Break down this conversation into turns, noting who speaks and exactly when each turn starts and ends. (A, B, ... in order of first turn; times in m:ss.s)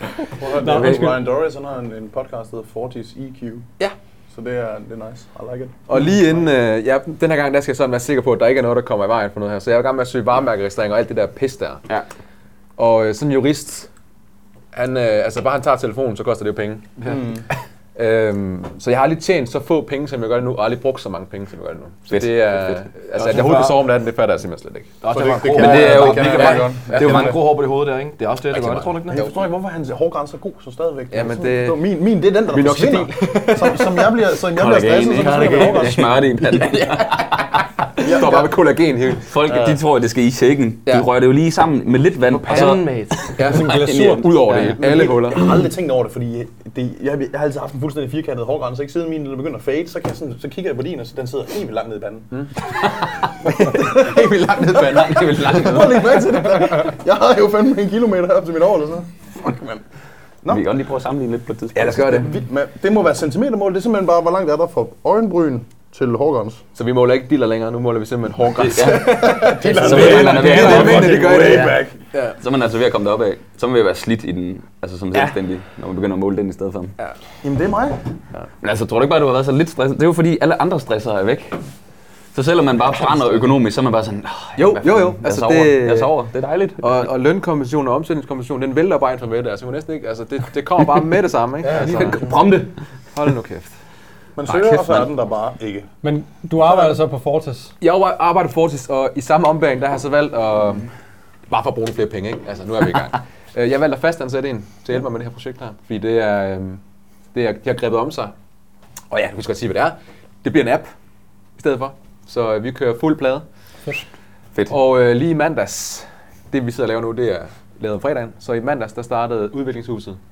0:00.4-0:03.7 A
0:00.4-0:01.2 B
0:00.7-0:01.1 C
0:04.3-0:05.8 A
0:05.9-0:11.8 D
0:12.8-0:13.9 D
0:14.7-0:17.0 D
0:17.1-0:17.4 A
0:18.0-0:25.0 D
0:22.1-0:22.8 C
0:23.2-0:23.9 E
0:25.0-0:29.3 E
0:25.1-0:27.4 A
0:25.6-0:27.4 C
0:26.2-0:27.3 D
0:28.5-0:29.3 D
0:29.1-0:36.2 A
0:31.1-0:31.8 D
0:32.5-0:34.2 D
0:34.5-0:38.1 C
0:35.3-0:36.1 D
0:38.0-0:39.8 D
0:38.0-0:38.5 A
0:39.3-0:44.7 C
0:42.3-0:43.3 E
0:43.4-0:45.5 D
0:43.4-0:44.3 B
0:44.5-0:44.8 E
0:44.7-0:52.3 A
0:53.4-0:56.8 D
0:53.5-0:54.0 A
0:54.5-0:56.2 C
0:55.4-0:59.8 A
1:00.5-1:02.3 C
1:01.8-1:02.4 D
1:01.8-1:06.6 A
1:06.8-1:12.4 D
1:08.6-1:11.4 C
1:08.7-1:11.9 A
1:12.4-1:16.9 C
1:17.4-1:18.0 A
1:18.6-1:21.6 C
1:22.3-1:26.9 C
1:24.6-1:26.1 D
1:26.8-1:32.2 D
1:31.7-1:32.2 E
1:31.9-1:32.7 C
1:33.1-1:33.7 D
1:34.4-1:35.9 A
1:34.5-1:35.1 D
1:36.0-1:37.7 B
1:37.8-1:40.9 D
1:41.5-1:46.8 D
1:47.3-1:48.3 D
1:49.1-1:50.9 D
1:51.6-1:53.4 D
1:54.7-2:00.2 D